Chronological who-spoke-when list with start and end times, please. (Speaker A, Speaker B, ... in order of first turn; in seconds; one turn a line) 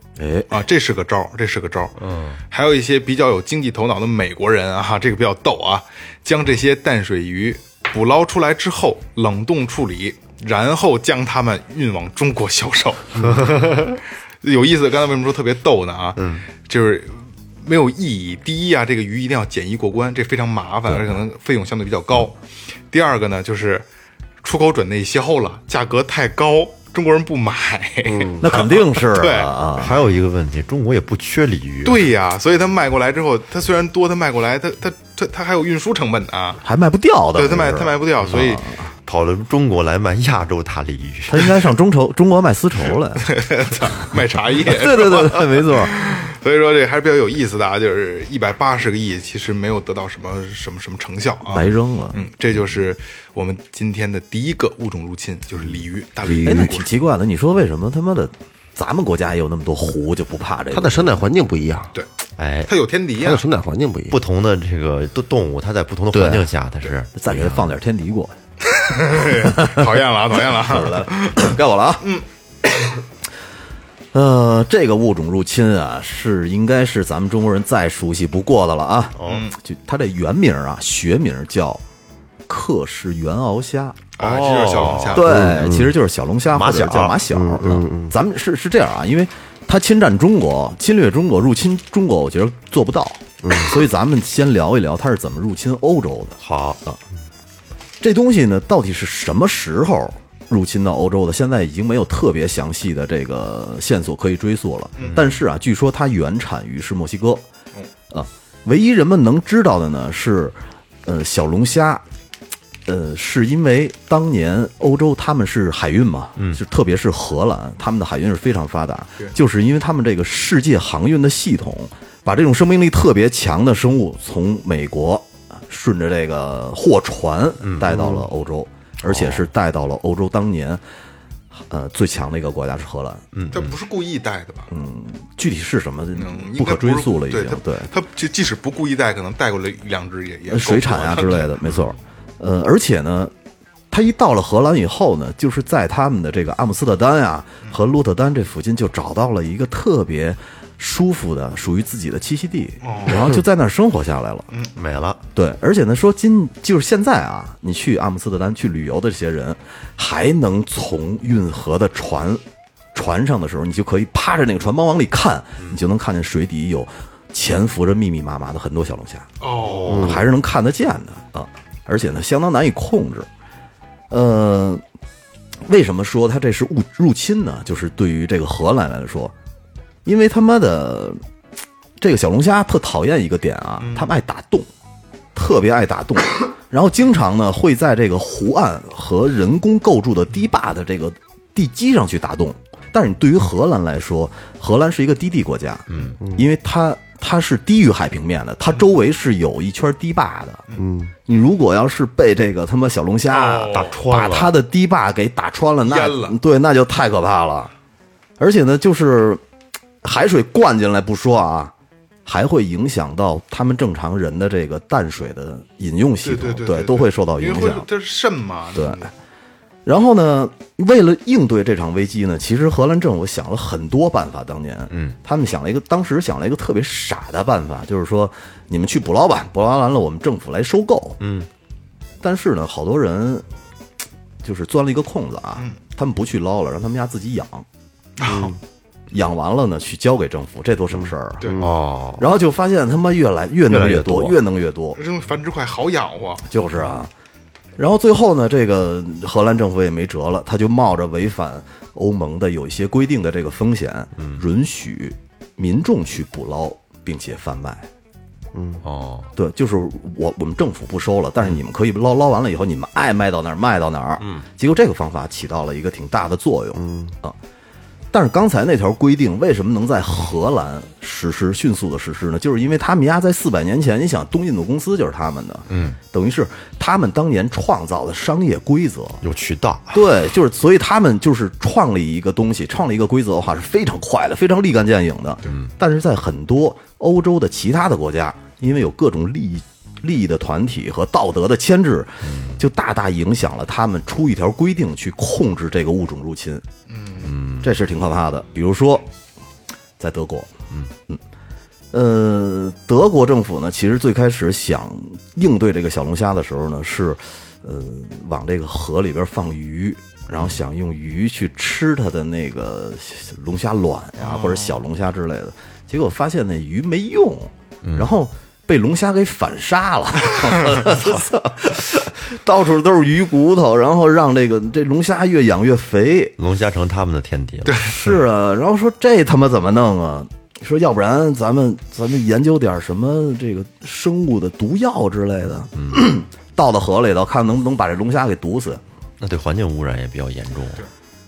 Speaker A: 0.2-0.5
Speaker B: 0.5-2.0
Speaker C: 2.0-2.4
Speaker B: 2.5-22.4
Speaker C: 16.2-16.4
Speaker B: 22.9-23.9
Speaker B: 24.4-29.8
Speaker D: 28.1-28.4
Speaker A: 28.4-30.0
Speaker C: 29.8-32.1
Speaker B: 31.8-36.6
Speaker A: 36.6-38.9
Speaker B: 37.3-38.6
Speaker C: 39.0-41.5
Speaker A: 41.3-43.2
Speaker B: 43.1-56.9
Speaker A: 44.6-46.0
Speaker A: 51.5-52.2
Speaker D: 56.2-56.7
Speaker A: 56.4-61.2
Speaker D: 60.7-61.9
Speaker C: 62.4-62.7
Speaker B: 62.6-63.5
Speaker D: 63.2-64.2
Speaker C: 64.1-67.7
Speaker D: 66.1-66.5
Speaker A: 67.1-68.3
Speaker B: 68.6-72.2
Speaker A: 69.4-69.9
Speaker A: 70.6-72.0
Speaker A: 74.1-81.8
Speaker C: 79.2-79.4
Speaker B: 79.2-79.5
Speaker A: 82.5-84.0
Speaker B: 84.2-85.5
Speaker C: 84.2-85.4
Speaker A: 85.1-97.0
Speaker D: 85.2-85.9
Speaker C: 86.5-87.2
Speaker D: 87.3-88.1
Speaker D: 93.4-93.8
Speaker C: 96.4-96.8
Speaker A: 98.0-107.4
Speaker B: 105.0-105.3
Speaker A: 108.1-112.0
Speaker A: 112.8-130.8
Speaker C: 127.6-128.1
Speaker D: 127.9-128.2
Speaker C: 129.0-129.4
Speaker A: 131.6-133.2
Speaker C: 133.3-133.7
Speaker B: 133.5-134.7
Speaker A: 134.7-137.9
Speaker B: 136.1-141.6
Speaker A: 140.5-143.3
Speaker A: 143.9-154.5
Speaker B: 152.8-153.3
Speaker C: 154.8-155.2
Speaker A: 155.3-162.4
Speaker A: 162.9-169.3
Speaker B: 169.4-170.1
Speaker C: 169.6-170.2
Speaker A: 169.8-173.3
Speaker D: 169.9-170.2
Speaker A: 174.1-174.8
Speaker A: 175.6-179.3
Speaker A: 180.0-181.2
Speaker A: 182.0-184.7
Speaker B: 183.8-184.1
Speaker A: 185.3-200.6
Speaker C: 195.9-196.2
Speaker D: 196.2-196.5
Speaker D: 200.8-201.1
Speaker A: 201.2-207.7
Speaker B: 203.3-204.0
Speaker C: 203.7-204.5
Speaker B: 205.8-206.4
Speaker A: 208.4-209.4
Speaker A: 210.0-211.7
Speaker A: 212.2-217.9
Speaker B: 216.2-219.1
Speaker A: 218.7-219.1
Speaker A: 219.8-231.2
Speaker C: 224.9-225.2
Speaker C: 231.2-231.5
Speaker A: 232.2-233.4
Speaker A: 234.4-237.7
Speaker B: 238.2-238.6
Speaker D: 238.3-238.6
Speaker A: 239.1-241.6
Speaker C: 241.6-242.3
Speaker A: 242.2-245.0
Speaker C: 243.7-244.4
Speaker B: 244.9-246.5
Speaker A: 246.4-247.1
Speaker A: 247.8-257.9
Speaker D: 258.5-258.8
Speaker C: 258.8-259.3
Speaker A: 259.3-267.4
Speaker D: 266.8-267.1
Speaker A: 268.1-279.2
Speaker C: 275.7-276.0
Speaker C: 279.2-280.1
Speaker A: 279.9-296.6
Speaker C: 285.4-285.7
Speaker C: 292.2-292.6
Speaker B: 296.9-297.3
Speaker C: 297.2-297.7
Speaker A: 297.6-299.1
Speaker A: 300.0-300.5
Speaker A: 301.9-326.4
Speaker B: 314.2-314.8
Speaker C: 317.8-318.1
Speaker C: 326.4-327.8
Speaker B: 327.7-328.0
Speaker A: 327.9-338.8
Speaker C: 335.7-336.1
Speaker C: 339.2-340.8